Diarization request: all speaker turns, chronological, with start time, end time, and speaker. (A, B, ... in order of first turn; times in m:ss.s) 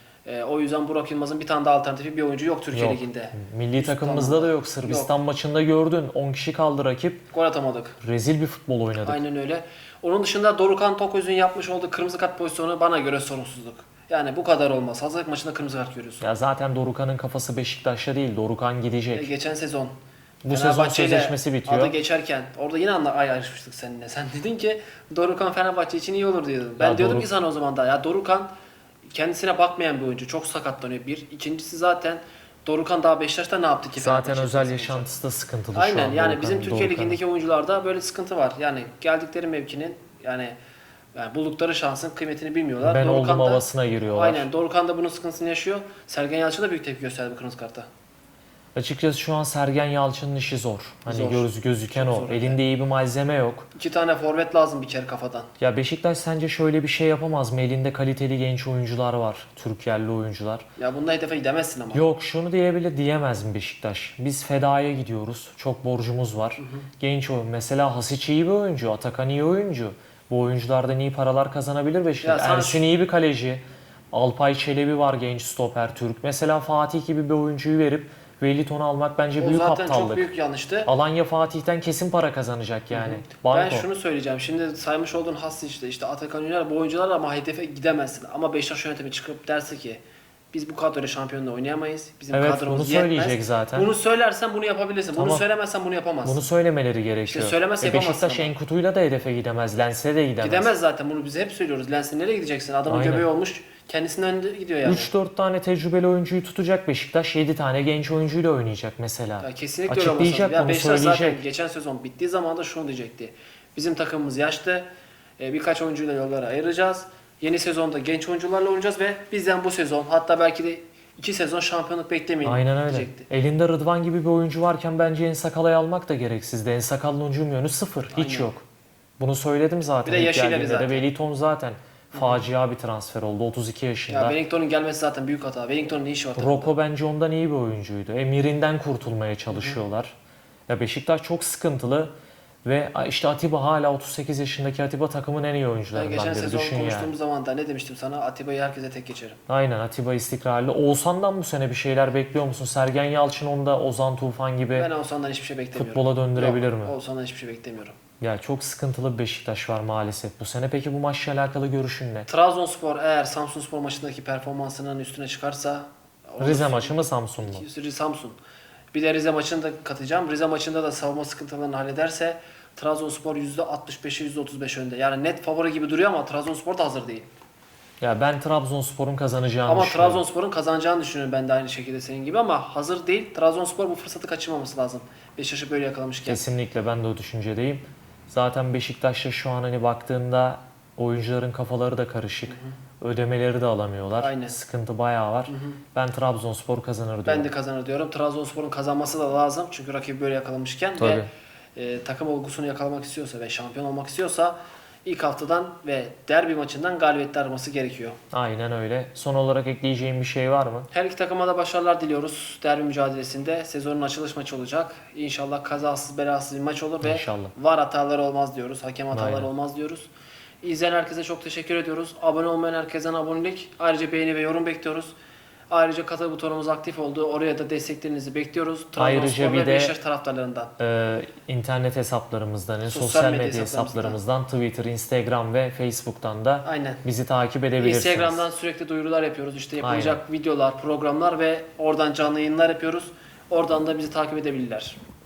0:00.2-0:05.1 A
0:02.7-0:07.3 B
0:07.3-0:08.0 A
0:08.0-0:09.2 B
0:09.0-0:16.2 A
0:16.2-0:19.3 B
0:19.1-0:20.0 A
0:20.4-0:22.0 B
0:20.5-0:28.5 A
0:26.8-0:27.3 B
0:29.1-0:35.1 A
0:34.0-0:37.2 B
0:35.7-0:40.6 A
0:41.1-0:47.9 A
0:42.8-0:44.5 B
0:48.7-0:53.7 B
0:51.1-0:52.6 A
0:53.7-0:55.5 A
0:55.6-1:00.7 B
1:00.8-1:02.0 A
1:01.9-1:20.3 B
1:06.6-1:06.9 A
1:12.2-1:12.8 A
1:19.4-1:20.9 A
1:20.8-1:23.9 B
1:22.9-1:36.5 A
1:32.3-1:33.9 B
1:35.2-1:35.4 B
1:36.2-1:40.7 B
1:37.3-1:38.5 A
1:40.4-1:45.1 A
1:42.9-1:43.3 B
1:44.8-1:51.4 B
1:49.4-1:54.9 A
1:55.4-2:03.3 A
2:02.4-2:08.6 B
2:08.1-2:08.5 A
2:09.2-2:14.4 B
2:10.0-2:11.1 A
2:12.1-2:12.4 A
2:14.1-2:16.7 A
2:16.4-2:20.1 B
2:19.5-2:19.8 A
2:20.7-2:22.1 B
2:22.6-2:27.1 B
2:25.9-2:29.4 A
2:29.5-2:34.9 B
2:34.7-2:38.0 A
2:35.7-2:36.9 B
2:38.2-2:42.3 B
2:42.3-2:48.4 A
2:46.4-2:47.6 B
2:48.9-2:57.3 A
2:58.0-3:00.2 B
2:59.6-3:06.4 A
3:06.2-3:17.5 B
3:14.2-3:14.6 A
3:15.5-3:15.8 A
3:17.2-3:28.2 A
3:21.0-3:21.3 B
3:28.3-3:30.9 B
3:30.9-3:40.1 A
3:37.0-3:37.5 B
3:39.1-3:39.5 B
3:40.6-3:45.1 A
3:45.7-3:50.7 A
3:49.0-3:50.0 B
3:50.8-3:58.4 B
3:52.8-3:54.2 A
3:56.6-3:57.0 A
3:57.8-4:05.0 A
3:59.8-4:00.2 B